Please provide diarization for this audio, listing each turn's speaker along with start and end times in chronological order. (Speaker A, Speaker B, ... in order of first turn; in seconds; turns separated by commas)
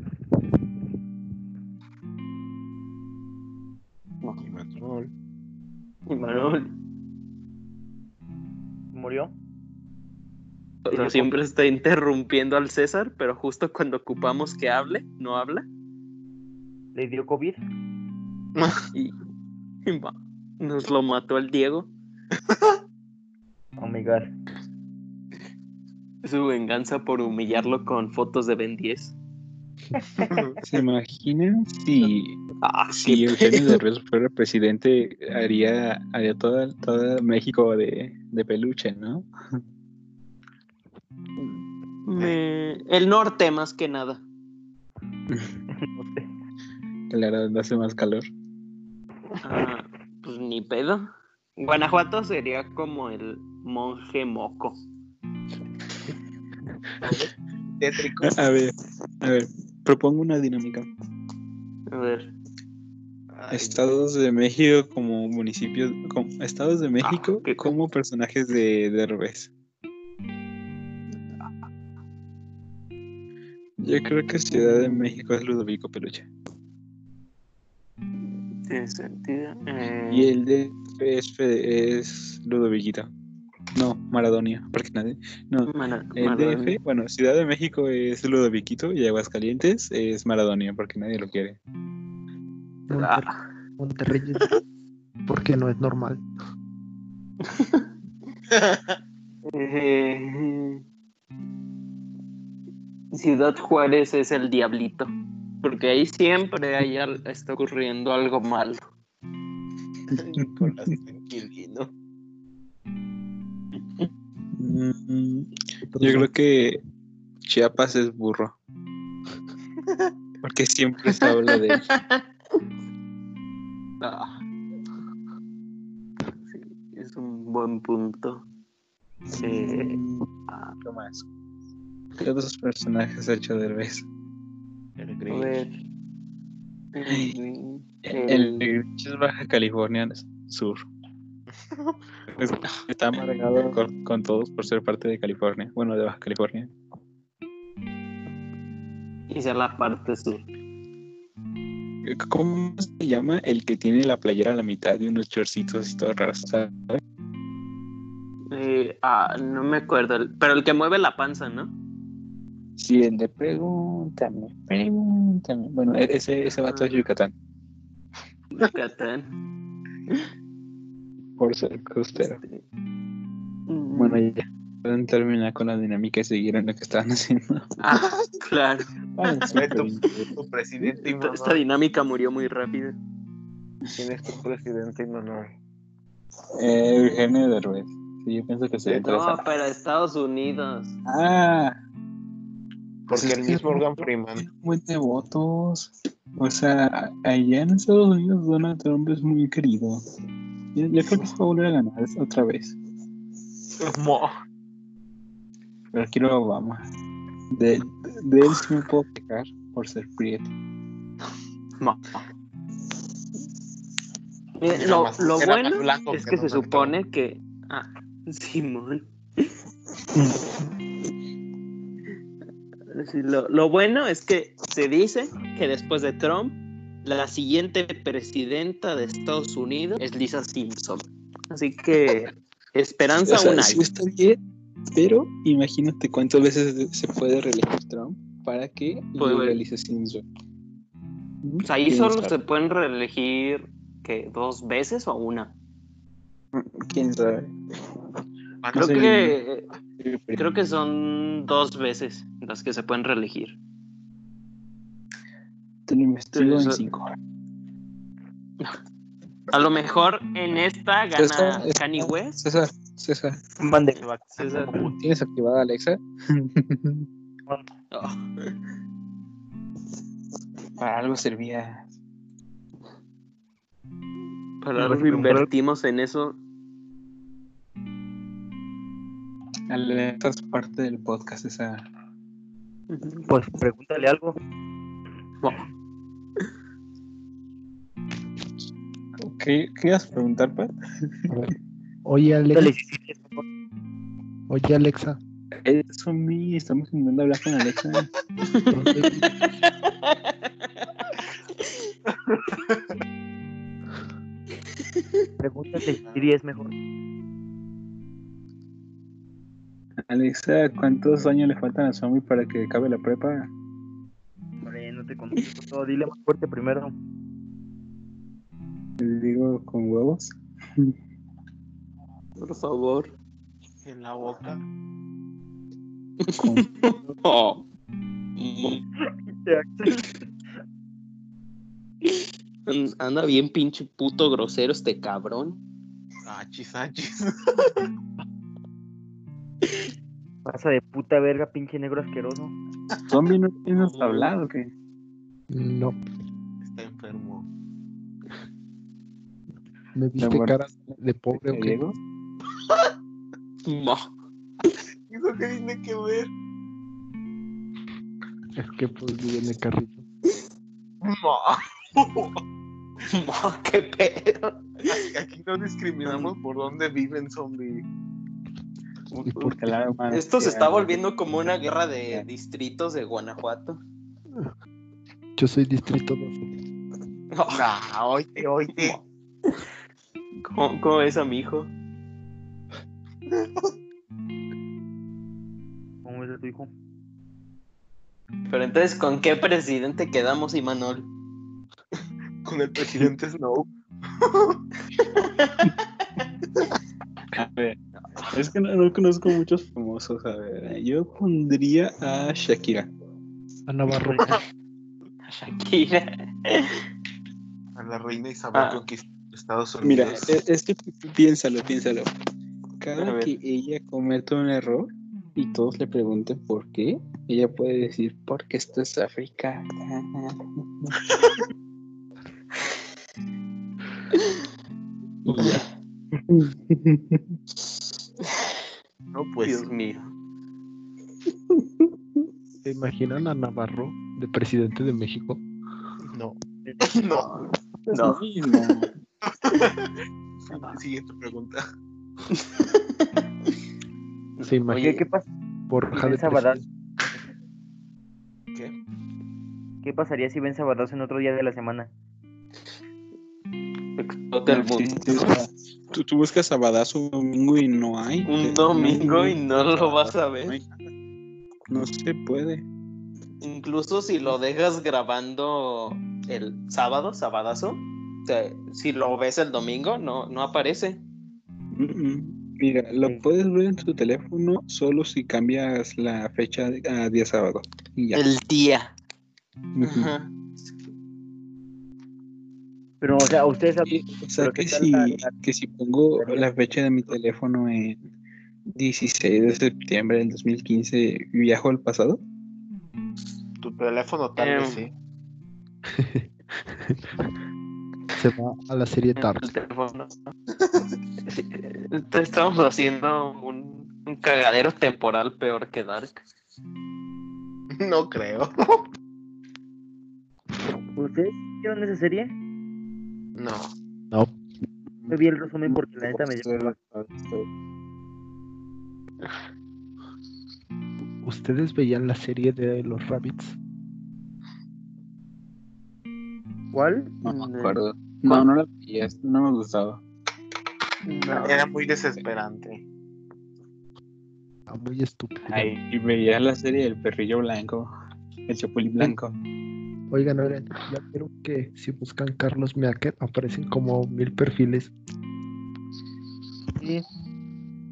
Speaker A: 4.3-5.1, Speaker B: 6.1-6.7, Speaker C: 8.9-9.3, Speaker B: 10.9-15.7, Speaker C: 10.9-11.3, Speaker C: 16.9-17.6, Speaker A: 18.6-18.8, Speaker B: 18.9-19.2, Speaker B: 19.9-21.9, Speaker C: 23.8-24.3, Speaker B: 26.2-29.1, Speaker A: 30.2-30.6, Speaker D: 30.6-39.3, Speaker B: 32.6-33.8, Speaker B: 42.1-44.2, Speaker C: 45.7-46.2, Speaker D: 47.1-48.3, Speaker B: 49.4-51.1, Speaker B: 51.6-54.8, Speaker A: 57.0-58.4, Speaker D: 58.2-60.9, Speaker B: 61.9-62.3, Speaker A: 63.3-63.8, Speaker D: 63.5-69.5, Speaker B: 67.0-67.7, Speaker D: 73.8-76.3, Speaker B: 78.7-80.3, Speaker D: 80.1-83.1, Speaker D: 83.8-91.6, Speaker B: 85.7-86.8, Speaker E: 92.9-93.3, Speaker B: 92.9-93.4, Speaker E: 93.8-94.5, Speaker E: 95.3-96.2, Speaker B: 97.4-97.9, Speaker B: 99.5-100.8, Speaker B: 103.1-105.1, Speaker B: 105.6-108.9, Speaker A: 110.1-111.9, Speaker D: 110.4-111.0, Speaker D: 114.5-116.8, Speaker E: 115.8-116.3, Speaker D: 117.5-118.5, Speaker D: 120.4-121.8, Speaker B: 121.2-122.2, Speaker B: 124.0-124.3, Speaker B: 126.4-128.4, Speaker D: 129.3-130.3, Speaker B: 129.4-130.8, Speaker D: 130.8-131.3, Speaker D: 132.2-134.1, Speaker A: 135.0-135.7, Speaker B: 135.3-135.8, Speaker B: 136.9-138.7, Speaker D: 137.1-137.4, Speaker D: 138.1-140.9, Speaker A: 141.7-142.0, Speaker D: 142.3-146.7, Speaker B: 149.3-150.5, Speaker D: 152.1-157.0, Speaker B: 158.5-161.7, Speaker D: 162.8-167.3, Speaker B: 166.7-167.0, Speaker B: 168.5-169.3, Speaker D: 171.4-172.4, Speaker B: 172.2-172.6, Speaker B: 173.7-174.2, Speaker D: 173.9-177.8, Speaker B: 177.8-179.5, Speaker D: 179.2-180.3, Speaker A: 179.5-181.6, Speaker B: 180.8-183.0, Speaker A: 183.9-185.5, Speaker D: 186.6-189.4, Speaker B: 189.0-191.0, Speaker D: 191.1-191.8, Speaker A: 193.1-194.4, Speaker D: 193.1-200.0, Speaker D: 200.8-202.8, Speaker A: 203.8-204.3, Speaker D: 205.9-206.8, Speaker D: 207.5-210.5, Speaker B: 211.8-212.2, Speaker B: 214.6-219.5, Speaker A: 214.7-217.0, Speaker B: 222.9-233.8, Speaker D: 233.3-234.4, Speaker D: 234.9-240.2, Speaker B: 239.2-239.6, Speaker D: 241.4-242.3, Speaker B: 241.6-245.5, Speaker D: 246.5-247.6, Speaker A: 248.6-249.1, Speaker D: 248.7-249.4, Speaker B: 248.8-249.7, Speaker D: 250.0-250.4, Speaker B: 250.4-253.6, Speaker D: 255.9-257.2, Speaker B: 256.3-256.8, Speaker B: 259.5-262.4, Speaker D: 261.2-263.4, Speaker C: 263.6-264.0, Speaker A: 264.0-265.0, Speaker B: 264.4-264.9, Speaker D: 265.0-267.1, Speaker B: 267.9-268.5, Speaker D: 270.8-271.9, Speaker B: 274.6-276.4, Speaker C: 274.8-275.5, Speaker D: 279.7-281.9, Speaker B: 282.9-283.3, Speaker C: 283.3-284.3, Speaker B: 285.4-285.7, Speaker D: 289.2-290.7, Speaker E: 291.3-291.5, Speaker E: 292.1-292.7, Speaker C: 292.5-293.4, Speaker E: 294.5-295.2, Speaker D: 295.6-298.1, Speaker B: 298.5-300.9, Speaker E: 298.7-299.2, Speaker A: 302.3-302.8, Speaker C: 305.4-306.7, Speaker D: 310.1-313.5, Speaker C: 314.6-316.9, Speaker D: 319.0-320.9, Speaker B: 322.4-323.1, Speaker A: 323.8-324.6, Speaker B: 326.2-327.6, Speaker D: 326.4-326.7, Speaker B: 328.4-328.8, Speaker C: 329.3-330.0, Speaker B: 332.0-335.6, Speaker A: 336.2-337.7, Speaker C: 340.4-342.5, Speaker D: 343.1-344.7, Speaker B: 343.8-344.3, Speaker E: 345.5-346.0, Speaker A: 346.6-347.5, Speaker E: 349.9-351.8, Speaker D: 350.2-351.9, Speaker B: 353.7-354.1, Speaker A: 355.1-356.3, Speaker E: 358.6-360.1, Speaker A: 361.0-362.4, Speaker B: 363.1-365.0, Speaker A: 364.9-367.8, Speaker B: 366.1-366.3, Speaker E: 369.2-369.7, Speaker D: 369.4-371.0, Speaker B: 370.1-373.8, Speaker E: 375.4-376.4, Speaker B: 377.3-377.7, Speaker A: 377.5-379.0, Speaker B: 378.7-379.6, Speaker B: 380.4-381.7, Speaker C: 386.1-386.7, Speaker B: 388.5-391.1, Speaker A: 392.4-393.7, Speaker A: 394.2-394.6, Speaker D: 397.3-397.8, Speaker D: 398.3-402.9, Speaker E: 403.7-404.4, Speaker B: 405.2-406.8, Speaker A: 407.8-410.4, Speaker B: 408.5-408.8, Speaker D: 409.8-412.1, Speaker D: 412.8-420.9, Speaker B: 413.0-413.3, Speaker D: 425.3-425.6, Speaker B: 425.3-425.7, Speaker D: 426.3-427.2, Speaker A: 429.1-429.7, Speaker B: 429.4-430.1, Speaker E: 432.6-435.4, Speaker A: 436.1-437.5, Speaker B: 437.2-438.2, Speaker D: 437.9-438.9, Speaker A: 439.2-439.9, Speaker A: 440.5-441.6, Speaker B: 444.4-445.0, Speaker E: 444.4-444.8, Speaker C: 444.7-445.3, Speaker E: 445.7-446.6, Speaker C: 445.9-446.6, Speaker C: 449.8-451.9, Speaker B: 454.0-455.1, Speaker D: 454.5-459.6, Speaker B: 458.3-460.6, Speaker A: 459.6-460.1, Speaker D: 461.7-462.6, Speaker B: 463.4-471.0, Speaker D: 471.7-478.2, Speaker B: 478.1-478.9, Speaker D: 479.7-480.1, Speaker B: 479.8-480.3, Speaker C: 483.0-485.3, Speaker D: 483.8-488.0, Speaker C: 486.2-486.4, Speaker D: 488.8-492.2, Speaker A: 493.6-494.9, Speaker B: 494.4-494.8, Speaker E: 495.9-497.3, Speaker E: 498.1-499.5, Speaker B: 499.2-500.3, Speaker B: 501.3-506.2, Speaker A: 507.8-508.8, Speaker C: 511.0-512.4, Speaker A: 513.4-513.7, Speaker E: 514.1-514.4, Speaker C: 515.1-516.8, Speaker D: 516.4-517.5, Speaker E: 521.2-523.6, Speaker C: 526.7-527.1, Speaker D: 527.2-530.0, Speaker B: 527.2-528.5, Speaker B: 531.1-531.6, Speaker A: 531.3-532.8, Speaker E: 534.7-535.7, Speaker D: 535.5-537.9, Speaker D: 538.5-539.3, Speaker E: 540.1-544.9